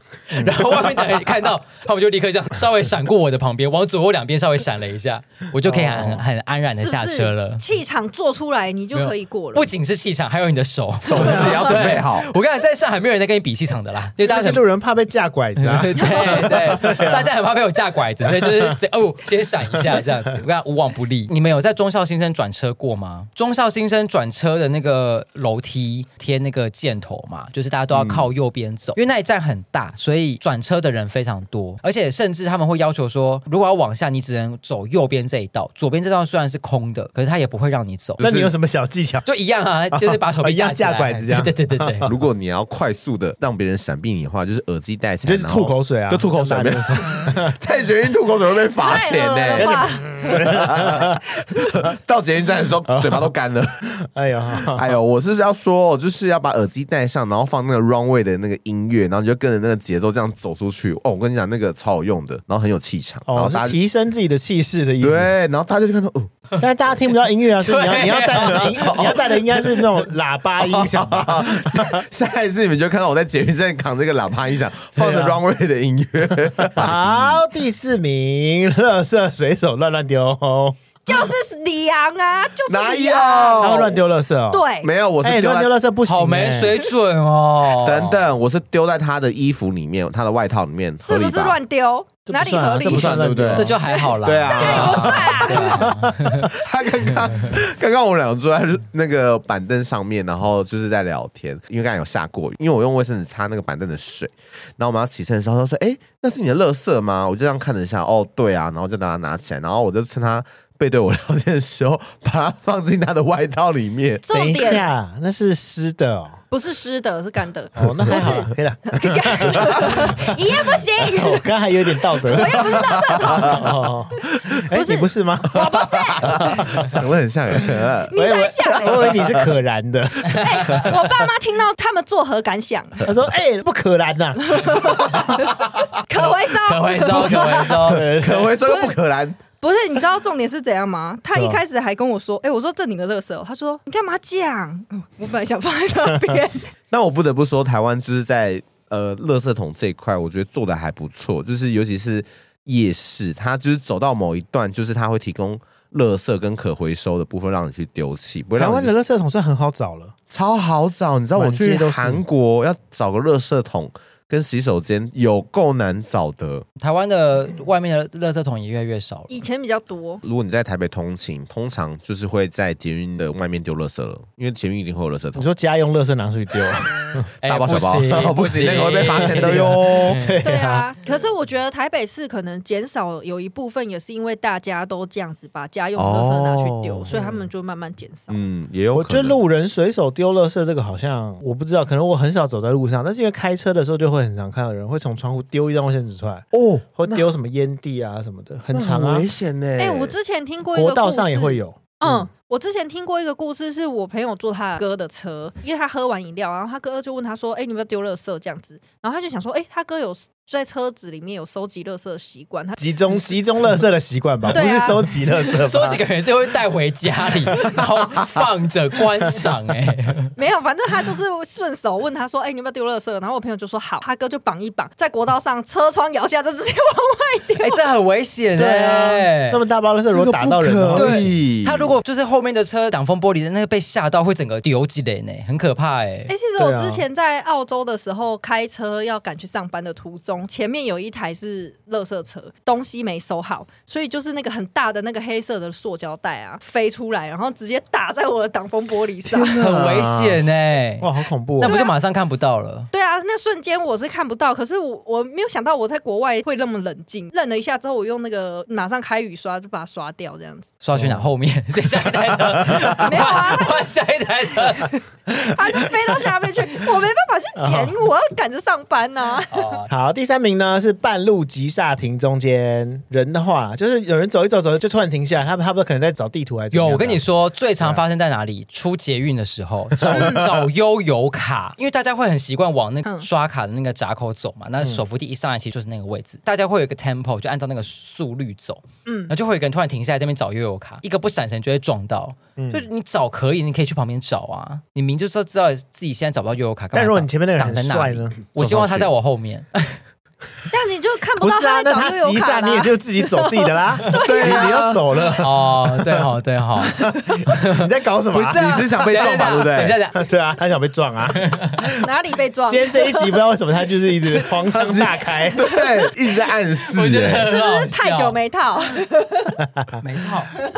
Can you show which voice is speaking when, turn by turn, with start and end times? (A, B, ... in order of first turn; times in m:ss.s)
0:00.3-0:07.6 A
0:05.6-0:06.2 B
0:06.7-0:09.7 C
0:08.9-0:14.6 A
0:11.0-0:12.3 D
0:14.2-0:17.3 B
0:15.6-0:38.2 A
0:16.0-0:16.4 C
0:18.3-0:18.8 B
0:27.9-0:28.3 D
0:38.2-0:38.5 D
0:38.2-0:39.2 B
0:39.2-0:42.1 A
0:39.9-0:42.1 B
0:42.0-0:53.8 D
0:45.2-0:47.5 B
0:48.8-0:50.4 C
0:49.5-0:51.3 B
0:52.9-0:53.3 B
0:53.8-0:55.0 B
0:54.6-1:03.8 D
1:03.3-1:05.3 B
1:05.0-1:06.3 D
1:06.6-1:12.0 B
1:07.6-1:09.3 A
1:08.3-1:09.2 D
1:10.6-1:17.4 D
1:15.0-1:15.4 B
1:16.4-1:20.8 B
1:21.0-1:24.9 C
1:22.7-1:24.0 D
1:23.6-1:24.6 B
1:24.8-1:25.7 D
1:25.2-1:26.8 B
1:26.0-1:28.2 A
1:27.7-1:31.6 D
1:31.0-1:33.2 C
1:32.3-1:33.8 B
1:32.8-1:35.8 D
1:33.5-1:36.5 A
1:33.9-1:35.9 C
1:35.7-1:36.4 B
1:36.4-1:54.2 D
1:54.2-1:54.9 C
1:54.3-1:56.4 B
1:56.5-2:01.5 C
1:57.8-2:05.7 B
1:57.8-1:58.4 D
2:02.2-2:06.6 C
2:02.7-2:03.6 D
2:05.6-2:09.5 D
2:06.2-2:06.9 B
2:08.1-2:09.2 C
2:08.1-2:11.0 B
2:10.3-2:10.8 A
2:10.3-2:13.1 C
2:13.0-2:15.2 B
2:14.4-2:17.9 C
2:15.0-2:15.8 D
2:16.1-2:18.2 A
2:17.1-2:18.6 B
2:18.1-2:19.4 D
2:18.6-2:19.0 C
2:19.6-2:26.7 C
2:21.3-2:21.6 B
2:26.9-2:38.9 D
2:38.6-2:40.1 B
2:40.3-2:46.6 D
2:41.3-2:42.2 B
2:46.8-2:49.4 A
2:49.3-2:50.2 C
2:50.2-2:55.5 D
2:55.3-2:57.3 B
2:57.4-3:00.4 A
2:57.4-3:00.2 D
2:59.1-3:00.8 B
3:00.4-3:08.4 C
3:06.0-3:07.2 D
3:07.1-3:07.4 B
3:08.3-3:09.4 D
3:08.9-3:19.3 B
3:16.5-3:17.3 D
3:18.7-3:20.1 D
3:19.8-3:33.4 C
3:20.7-3:22.3 B
3:32.8-3:36.0 B
3:34.5-3:35.1 C
3:35.4-3:40.3 A
3:40.4-3:47.8 C
3:47.6-3:49.6 A
3:48.6-3:51.4 B
3:50.1-3:51.9 D
3:50.9-3:56.3 A
3:56.3-4:09.6 C
3:56.6-3:57.0 B
4:09.3-4:10.4 D
4:09.5-4:12.9 A
4:11.0-4:11.7 B
4:11.6-4:11.9 C
4:12.9-4:20.7 C
4:20.8-4:24.9 A
4:20.9-4:21.3 B
4:23.0-4:23.9 C
4:24.7-4:25.0 C
4:25.3-4:26.1 B
4:25.5-4:29.8 C
4:27.6-4:27.9 B
4:29.5-4:29.9 A
4:29.9-4:37.2 B
4:36.7-5:00.0 A
4:40.1-4:40.5 C
4:49.0-4:49.3 C
4:52.6-4:52.8 B
4:56.9-4:59.0 B
4:58.6-4:59.0 D
5:00.7-5:04.7 C
5:01.4-5:06.3 B
5:04.2-5:05.0 D
5:05.4-5:10.2 A
5:07.0-5:08.7 B
5:08.4-5:10.0 D
5:10.1-5:11.9 B
5:11.3-5:11.8 A
5:12.0-5:13.4 C
5:12.7-5:15.6 B
5:14.7-5:17.4 D
5:15.6-5:16.1 C
5:16.9-5:18.4 A
5:17.4-5:19.6 C
5:20.0-5:20.6 A